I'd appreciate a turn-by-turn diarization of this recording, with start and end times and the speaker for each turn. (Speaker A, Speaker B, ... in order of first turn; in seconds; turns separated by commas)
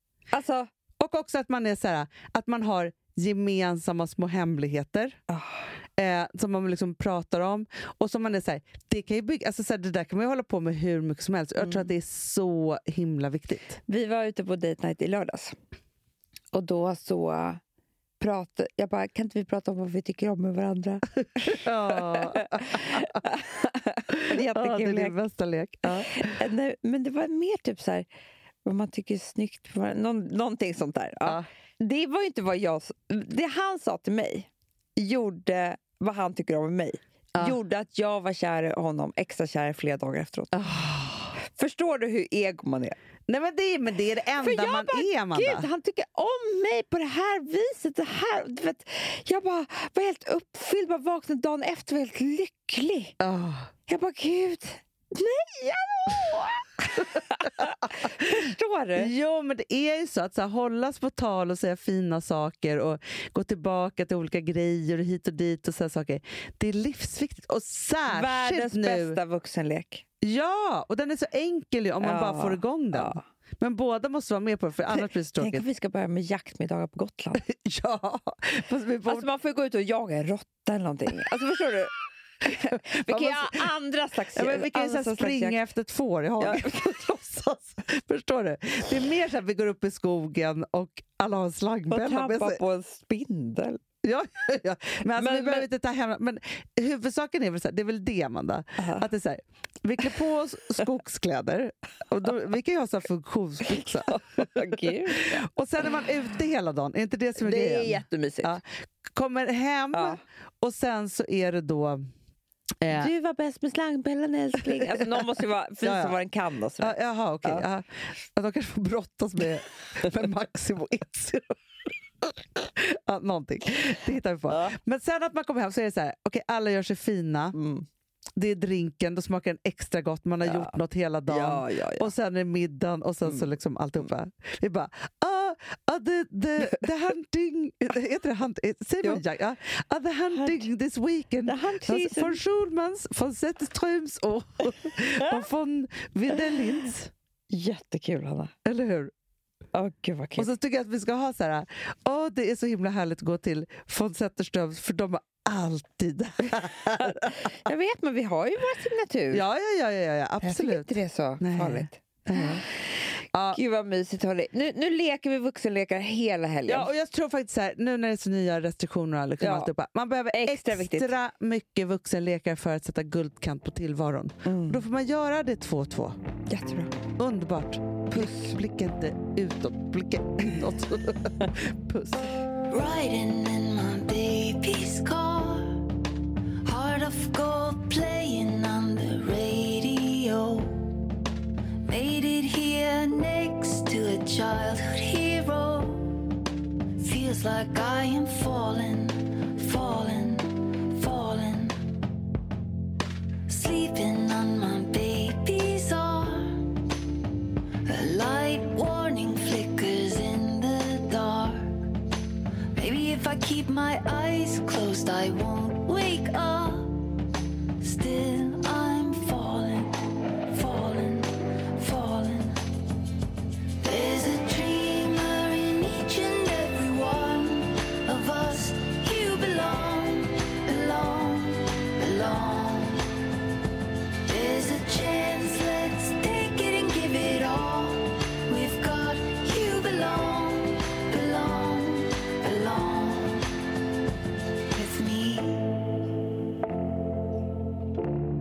Speaker A: 0.3-0.7, Speaker B: 1.0-5.2, Speaker A: 5.3-5.7, Speaker B: 6.0-13.8, Speaker A: 11.6-11.9, Speaker A: 13.9-15.5, Speaker A: 16.5-17.6, Speaker A: 18.2-25.1, Speaker B: 21.4-23.1, Speaker B: 24.1-26.3, Speaker A: 25.8-28.1, Speaker A: 28.6-40.7, Speaker B: 40.5-41.3, Speaker A: 41.4-43.0, Speaker B: 43.3-45.7, Speaker A: 44.4-53.1, Speaker B: 53.2-53.7, Speaker A: 53.9-59.1, Speaker B: 57.0-69.2, Speaker A: 68.1-70.0, Speaker B: 70.2-75.6, Speaker A: 72.0-73.2, Speaker A: 74.9-77.4, Speaker B: 77.4-79.3, Speaker A: 79.0-85.6, Speaker B: 82.5-83.7, Speaker B: 84.3-92.6, Speaker A: 86.4-86.9, Speaker A: 91.9-93.8, Speaker B: 94.0-104.6, Speaker A: 95.2-95.7, Speaker A: 98.8-99.0, Speaker A: 103.7-105.5, Speaker B: 105.4-112.0, Speaker A: 107.4-108.6, Speaker A: 109.9-110.2, Speaker B: 112.8-113.1, Speaker A: 112.9-117.6, Speaker B: 115.8-116.2, Speaker B: 116.8-127.5, Speaker A: 124.5-124.8, Speaker A: 127.5-127.8, Speaker B: 128.3-147.1, Speaker A: 130.4-130.7, Speaker A: 131.3-132.1, Speaker A: 140.3-140.7, Speaker A: 141.4-142.4, Speaker A: 147.5-148.5, Speaker B: 148.6-149.1, Speaker A: 149.7-150.5, Speaker B: 150.4-157.5, Speaker A: 157.0-159.4, Speaker B: 159.3-162.6, Speaker A: 160.4-162.6, Speaker B: 163.3-163.6, Speaker A: 163.5-166.9, Speaker B: 166.7-176.2, Speaker A: 169.4-169.7, Speaker A: 170.3-171.1, Speaker A: 174.4-174.8, Speaker A: 176.5-176.9, Speaker B: 177.2-182.3, Speaker A: 178.1-178.5, Speaker C: 182.7-185.9, Speaker C: 186.6-190.8, Speaker C: 191.8-196.2, Speaker C: 197.0-201.8, Speaker C: 203.5-206.7, Speaker C: 207.8-211.8, Speaker C: 212.7-217.1, Speaker C: 217.8-222.6, Speaker C: 223.8-233.1, Speaker C: 234.2-243.5, Speaker C: 244.7-245.8